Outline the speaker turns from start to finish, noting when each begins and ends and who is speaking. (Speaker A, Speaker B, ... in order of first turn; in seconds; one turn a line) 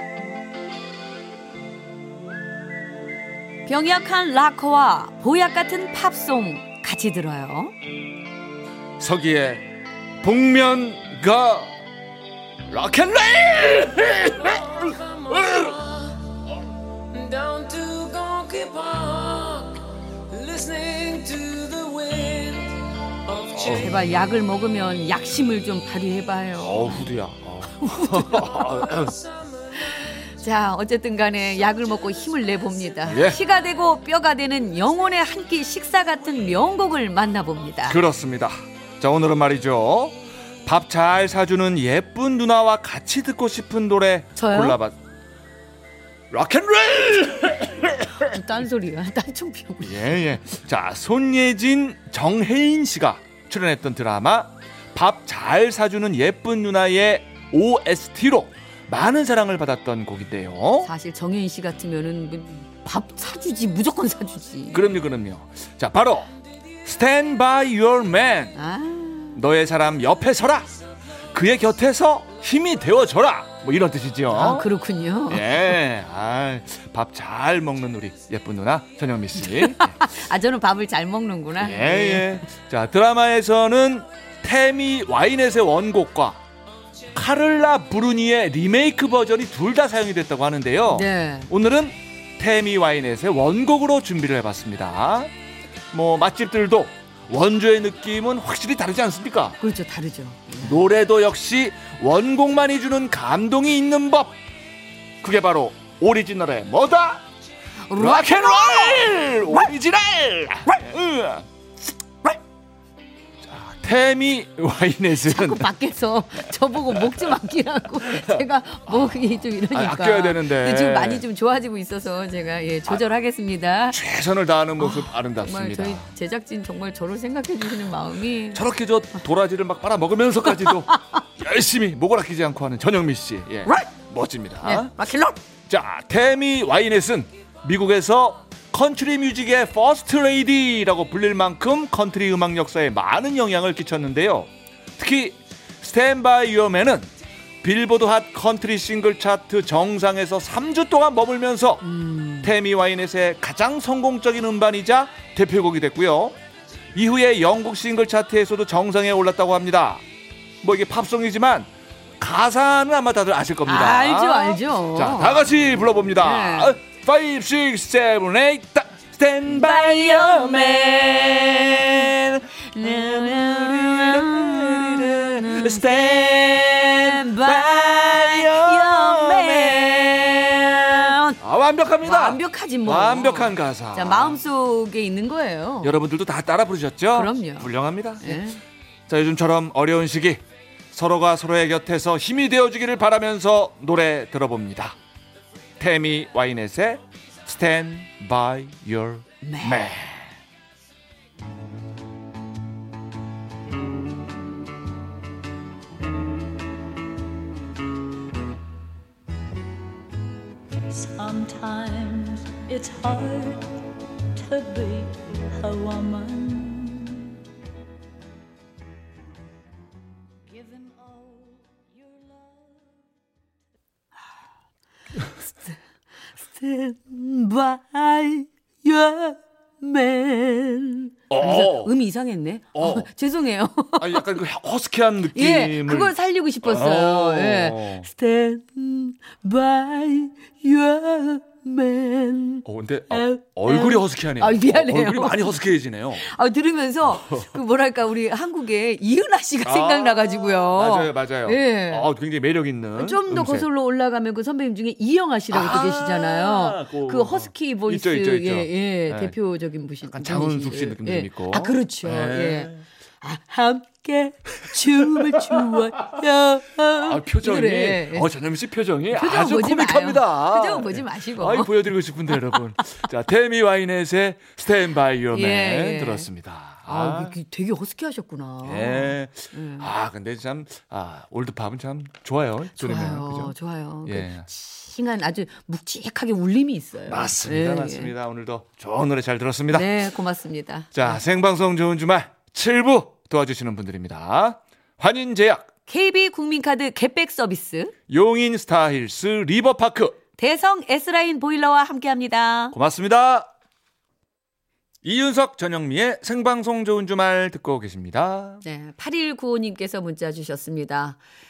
Speaker A: 3.6-7.8
Speaker B: 9.0-9.7
Speaker B: 10.2-11.8
Speaker B: 12.7-15.9
Speaker C: 17.2-19.8
Speaker C: 20.3-22.6
Speaker B: 23.5-23.9
Speaker A: 23.6-27.1
Speaker B: 26.6-29.2
Speaker A: 27.8-28.8
Speaker A: 29.8-38.0
Speaker B: 33.1-33.4
Speaker B: 37.8-45.0
Speaker A: 44.4-44.8
Speaker B: 46.3-48.4
Speaker A: 48.1-50.2
Speaker B: 49.8-60.9
Speaker A: 60.8-64.9
Speaker B: 64.7-66.3
Speaker B: 66.8-68.5
Speaker A: 68.5-69.4
Speaker B: 69.3-70.7
Speaker B: 71.3-74.7
Speaker A: 74.3-75.7
Speaker B: 75.3-79.9
Speaker A: 79.4-82.4
Speaker B: 81.6-86.4
Speaker B: 87.1-95.3
Speaker A: 90.9-91.5
Speaker B: 95.9-99.6
Speaker A: 99.6-100.8
Speaker B: 100.6-104.3
Speaker B: 105.2-107.2
Speaker A: 107.9-109.3
Speaker B: 107.9-111.5
Speaker B: 113.4-115.7
Speaker A: 115.2-124.0
Speaker B: 116.9-117.2
Speaker B: 118.1-119.2
Speaker B: 119.7-121.2
Speaker B: 123.9-126.1
Speaker A: 124.8-128.6
Speaker B: 128.5-134.9
Speaker A: 133.7-133.9
Speaker A: 134.6-135.4
Speaker B: 135.7-147.1
Speaker B: 147.6-151.8
Speaker A: 151.8-152.5
Speaker B: 152.4-156.3
Speaker B: 156.9-160.0
Speaker B: 160.6-180.5
Speaker A: 163.6-165.6
Speaker A: 166.1-166.8
Speaker A: 169.5-172.1
Speaker A: 172.7-181.4
Speaker B: 181.4-184.4
Speaker A: 182.0-186.0
Speaker B: 185.8-188.4
Speaker A: 187.1-188.6
Speaker B: 189.1-194.9
Speaker B: 195.8-200.3
Speaker A: 199.4-199.9
Speaker D: 210.8-217.4
Speaker D: 220.5-222.4
Speaker A: 226.4-234.3
Speaker B: 231.3-231.9
Speaker B: 232.7-233.1
Speaker B: 234.0-238.1
Speaker A: 235.3-252.1
Speaker B: 242.6-246.2
Speaker B: 247.1-247.5
Speaker B: 249.6-253.7
Speaker A: 252.9-268.3
Speaker B: 255.5-259.3
Speaker B: 260.0-262.9
Speaker B: 265.5-265.8
Speaker B: 266.9-277.3
Speaker A: 269.1-271.7
Speaker A: 272.3-272.5
Speaker A: 275.3-276.3
Speaker A: 276.9-279.9
Speaker B: 278.6-283.5
Speaker A: 282.8-288.1
Speaker B: 284.1-284.5
Speaker B: 287.1-290.0
Speaker A: 289.7-291.2
Speaker B: 290.9-295.7
Speaker A: 295.9-297.9
Speaker B: 298.1-300.2
Speaker A: 300.4-302.7
Speaker B: 302.7-303.5
Speaker B: 305.0-308.6
Speaker A: 308.6-311.2